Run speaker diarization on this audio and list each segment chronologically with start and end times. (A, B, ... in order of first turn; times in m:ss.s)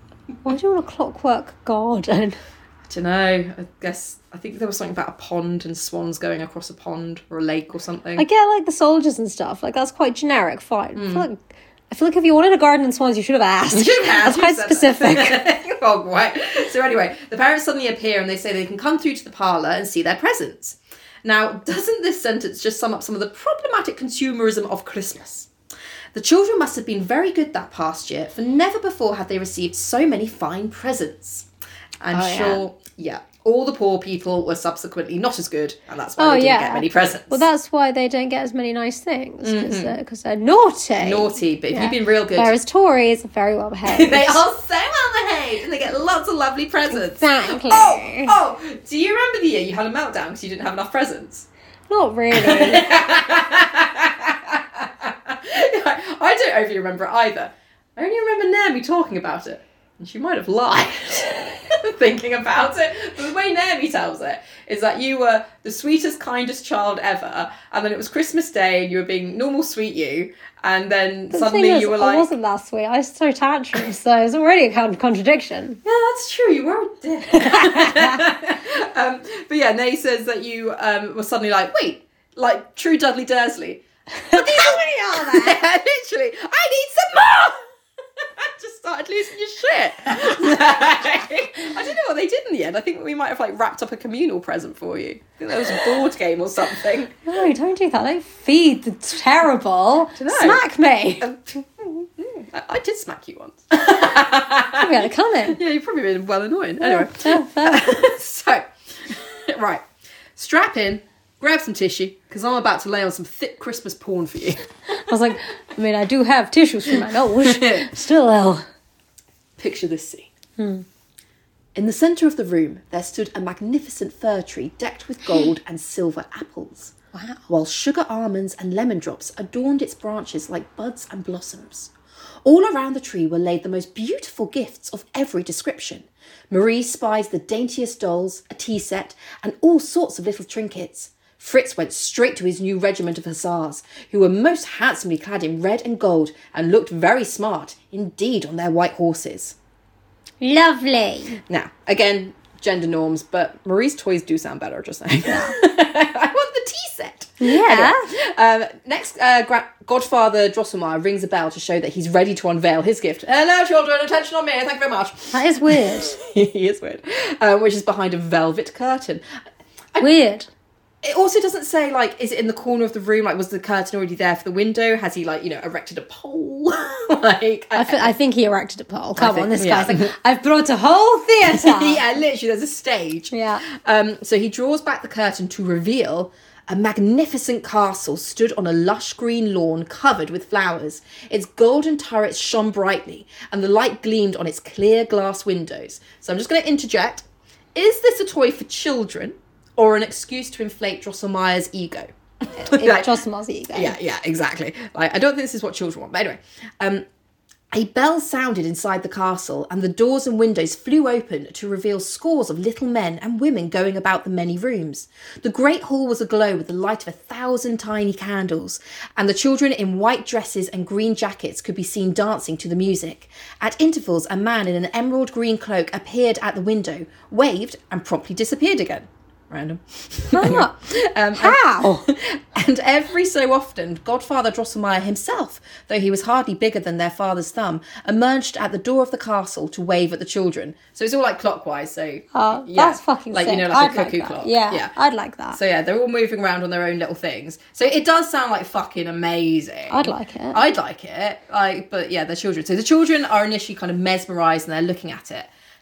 0:00.4-0:02.4 A
0:02.8-0:08.2 B
0:08.2-0:15.4 A
0:11.0-0:11.3 B
0:13.7-0:25.5 B
0:26.1-0:31.5 B
0:32.0-0:37.4 B
0:32.1-0:32.6 A
0:36.2-0:44.4 A
0:39.4-0:40.0 B
0:41.0-0:42.5 B
0:43.9-0:51.5 B
0:46.9-0:48.4 A
0:51.9-0:52.9 A
0:52.3-1:12.3 B
1:11.3-1:15.8 A
1:15.8-1:27.6 B
1:17.3-1:18.2 A
1:24.2-1:25.6 A
1:28.2-1:37.1 B
1:37.2-1:41.3 A
1:40.2-1:40.6 B
1:41.2-1:49.8 B
1:44.7-1:45.6 A
1:46.8-1:48.0 A
1:50.4-1:54.6 B
1:54.9-1:58.6 A
1:56.9-1:57.9 B
1:59.6-2:00.3 B
2:00.6-2:00.8 A
2:01.7-2:06.9 B
2:07.1-2:07.4 A
2:07.5-2:11.9 B
2:12.4-2:29.6 B
2:30.4-2:31.4 A
2:31.5-2:49.2 B
2:35.3-2:35.5 A
2:37.4-2:38.1 A
2:45.3-2:46.2 A
2:50.0-2:50.5 A
2:51.0-2:58.1 B
2:57.7-3:02.0 A
2:59.2-3:00.1 B
3:01.4-3:23.1 B
3:03.3-3:03.6 A
3:22.6-3:24.0 A
3:23.7-3:27.0 B
3:27.7-4:04.9 B
3:50.3-3:50.7 A
3:51.3-3:52.1 A
4:02.3-4:05.6 A
4:05.5-4:15.5 B
4:09.9-4:10.6 A